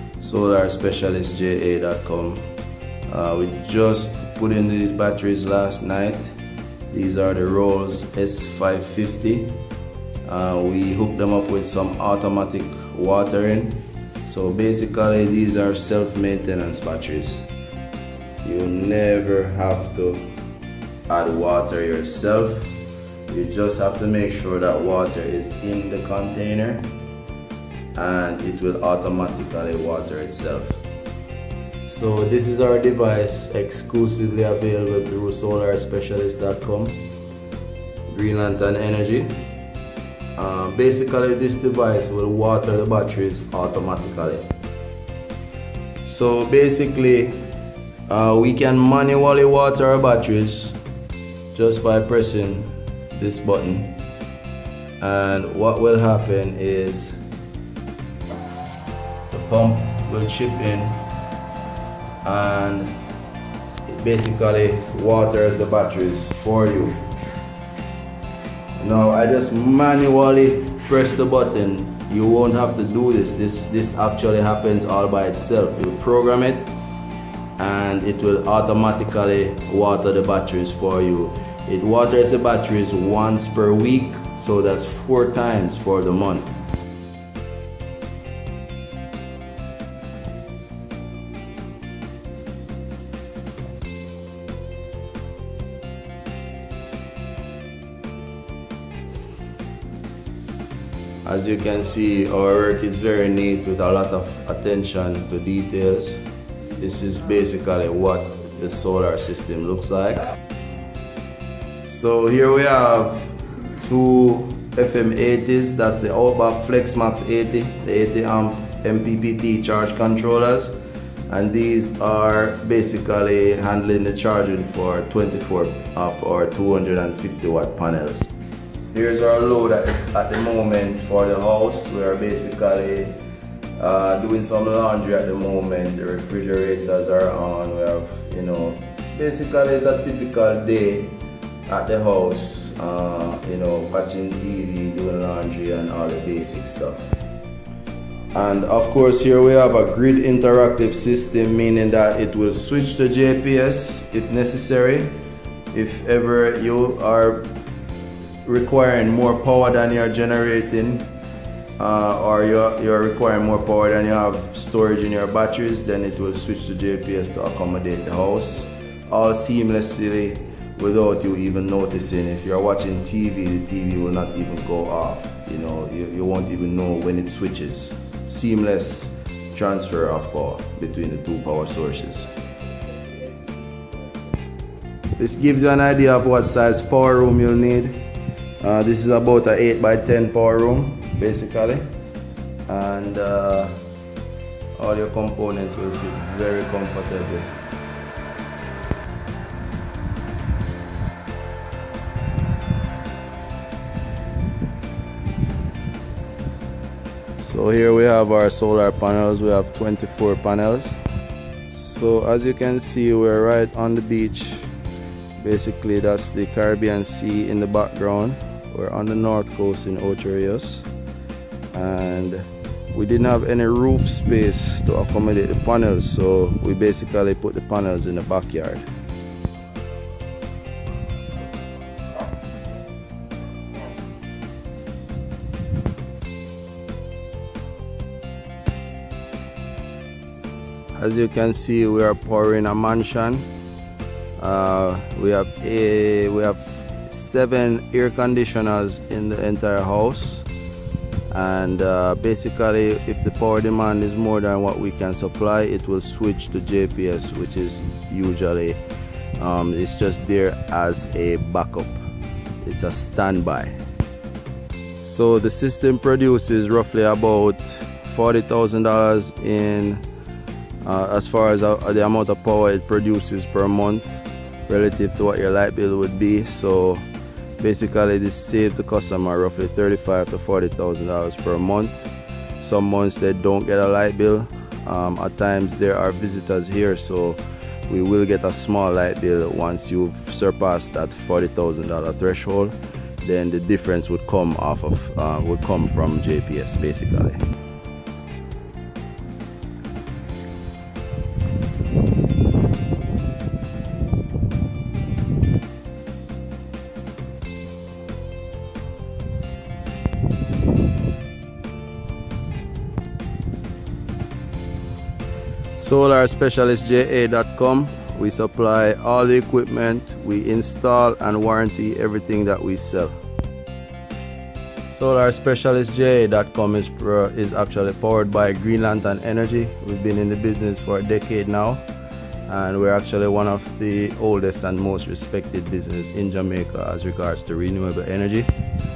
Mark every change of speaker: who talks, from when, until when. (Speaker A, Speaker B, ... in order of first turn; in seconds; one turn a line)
Speaker A: 0.2-2.5
Speaker A: 3.1-6.2
Speaker A: 6.9-9.6
Speaker A: 10.2-17.5
Speaker A: 18.4-20.3
Speaker A: 21.1-22.8
Speaker A: 23.3-26.9
Speaker A: 27.9-30.8
Speaker A: 31.9-37.1
Speaker A: 38.1-39.4
Speaker A: 40.4-44.5
Speaker A: 46.0-47.5
Speaker A: 48.1-50.8
Speaker A: 51.5-54.0
Speaker A: 55.0-57.2
Speaker A: 59.3-61.0
Speaker A: 62.2-63.0
Speaker A: 63.9-67.0
Speaker A: 68.8-76.7
Speaker A: 77.6-86.6
Speaker A: 101.2-106.2
Speaker A: 106.8-110.2
Speaker A: 111.8-120.8
Speaker A: 121.3-128.3
Speaker A: 128.9-133.2
Speaker A: 133.8-147.1
Speaker A: 148.3-155.2
Speaker A: 155.7-157.5
Speaker A: 158.4-161.1
Speaker A: 161.8-182.3
Speaker A: 185.2-188.0
Speaker A: 188.6-191.8
Speaker A: 192.7-193.8
Speaker A: 194.8-197.5
Speaker A: 207.4-211.0
Speaker A: 211.7-214.7
Speaker A: 215.4-220.8
Speaker A: 221.7-228.8
Speaker A: 240.9-243.5
Speaker A: 244.4-250.4
Speaker A: 251.3-258.8
Speaker A: 259.4-262.0
Speaker A: 262.6-263.8
Speaker A: 265.0-270.0
Speaker A: 270.8-274.2
Speaker A: 274.7-277.0
Speaker A: 277.6-282.0
Speaker A: 282.6-297.4
Speaker A: 315.8-323.2
Speaker A: 324.9-331.8
Speaker A: 332.5-338.5